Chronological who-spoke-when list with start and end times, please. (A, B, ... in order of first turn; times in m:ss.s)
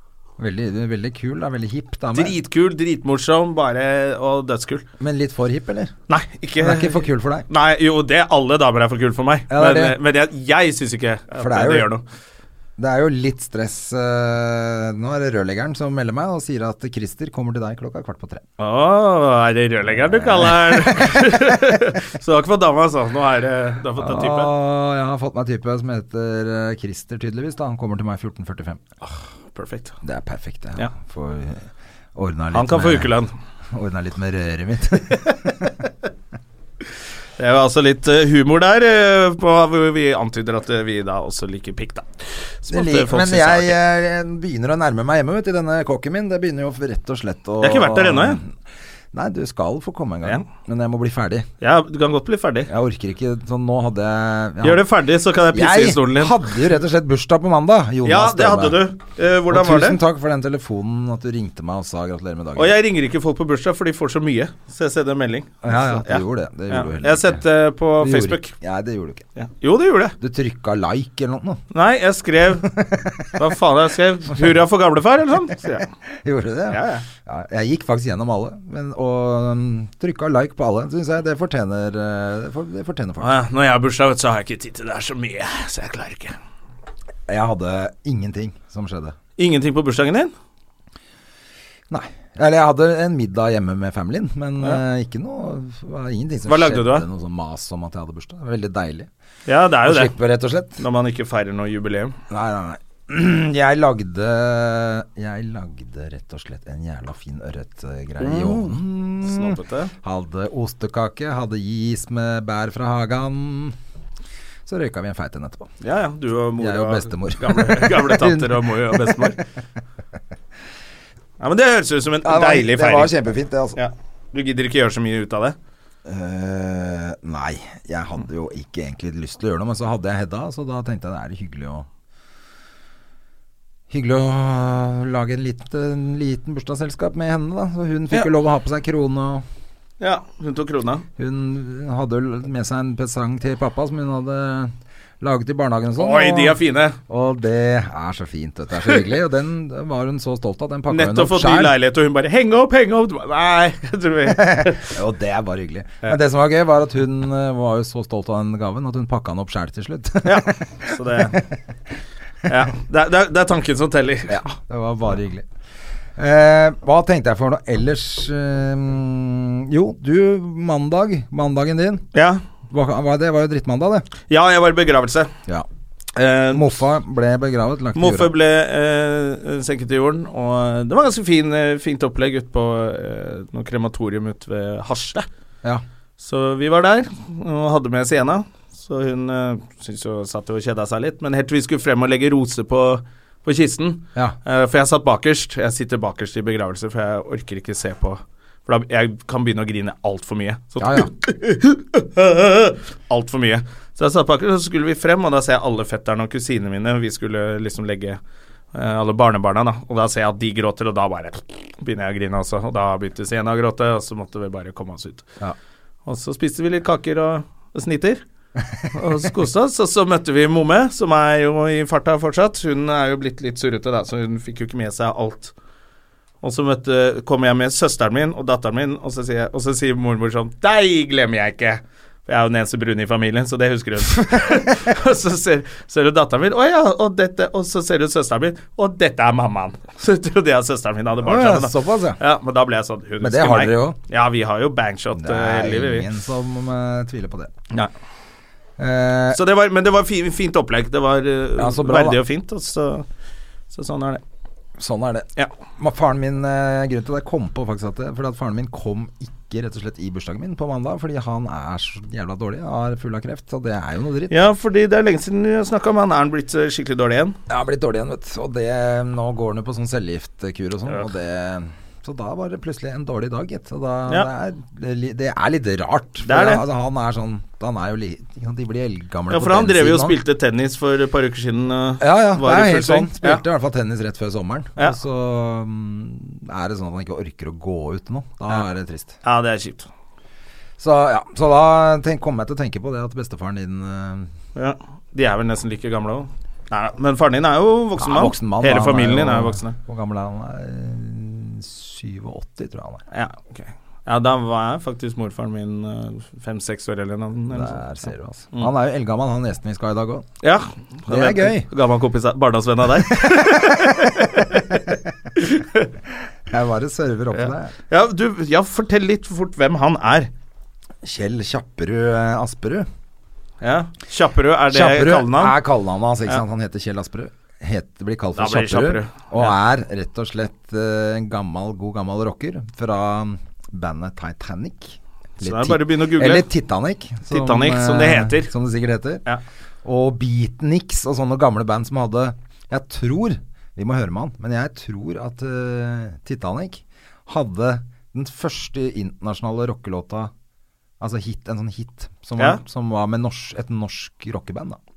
0:00.4-0:02.4 A
0:02.1-0:04.8 B
0:05.0-0:05.9 A
0:06.1-0:12.0 B
0:06.6-0:07.4 A
0:09.5-0:10.0 A
0:11.4-0:11.9 A
0:12.8-0:18.4 A
0:18.6-0:24.5 B
0:20.0-0:21.9 A
0:24.0-0:28.8 A
0:29.5-0:29.9 B
0:30.0-0:33.1 A
0:32.5-0:33.3 B
0:33.7-0:35.7 A
0:37.4-0:42.1 B
0:42.6-0:43.8 B
0:42.7-0:48.5 A
0:47.6-0:48.4 B
0:49.1-0:51.5 A
0:51.6-0:52.7 B
0:52.7-0:54.8 A
0:54.6-0:56.5 B
0:55.5-0:58.8 A
0:58.0-1:00.0 B
0:59.5-1:02.8 A
1:02.6-1:08.5 B
1:05.6-1:07.4 A
1:08.0-1:09.2 A
1:09.4-1:10.1 B
1:10.2-1:11.6 A
1:11.7-1:15.9 B
1:12.8-1:13.3 A
1:16.2-1:23.3 A
1:16.7-1:17.0 B
1:23.2-1:26.4 B
1:27.3-1:29.2 A
1:29.4-1:30.3 B
1:31.9-1:39.1 A
1:36.5-1:37.0 B
1:39.5-1:40.1 B
1:39.8-1:40.8 A
1:40.8-1:42.2 B
1:42.3-1:53.8 A
1:48.2-1:49.9 B
1:54.6-1:55.7 A
1:55.8-1:59.4 B
1:56.6-1:59.4 A
2:01.4-2:03.1 B
2:02.2-2:03.8 A
2:03.8-2:05.6 B
2:06.0-2:11.9 A
2:13.9-2:19.4 A
2:20.0-2:21.0 B
2:21.2-2:31.7 A
2:26.0-2:27.0 B
2:30.9-2:34.9 B
2:34.3-2:40.6 A
2:40.2-2:41.4 B
2:42.4-2:44.5 B
2:44.3-2:45.4 A
2:46.2-2:52.0 A
2:52.1-2:52.4 B
2:52.7-2:54.1 A
2:54.3-2:55.3 B
2:56.2-2:56.8 B
2:56.5-2:58.3 A
2:57.9-3:05.3 B
3:06.2-3:28.2 B
3:20.8-3:21.1 A
3:28.7-3:35.3 B
3:36.0-3:38.2 B
3:38.9-3:45.5 B
3:46.4-4:06.1 B
4:01.2-4:02.2 A
4:03.2-4:04.0 A
4:05.2-4:07.5 A
4:08.8-4:09.4 A
4:09.3-4:13.0 B
4:11.6-4:12.2 A
4:13.7-4:14.2 B
4:14.8-4:15.3 A
4:15.8-4:24.4 A
4:24.3-4:27.4 B
4:27.5-4:40.2 A
4:36.2-4:36.6 B
4:39.3-4:43.4 B
4:42.0-4:49.2 A
4:49.2-4:49.9 B
4:50.8-4:54.3 A
4:54.6-4:59.8 B
4:58.0-5:03.0 A
5:03.1-5:07.8 B
5:07.5-5:10.3 A
5:10.4-5:14.8 B
5:11.1-5:11.7 A
5:13.1-5:14.4 A
5:15.4-5:15.9 B
5:16.5-5:17.7 A
5:17.3-5:20.3 B
5:21.0-5:22.9 A
5:23.6-5:25.6 B
5:24.7-5:39.2 A
5:28.4-5:29.5 B
5:35.4-5:36.5 B
5:37.3-5:38.5 B
5:39.8-5:50.3 A
5:51.0-5:54.8 A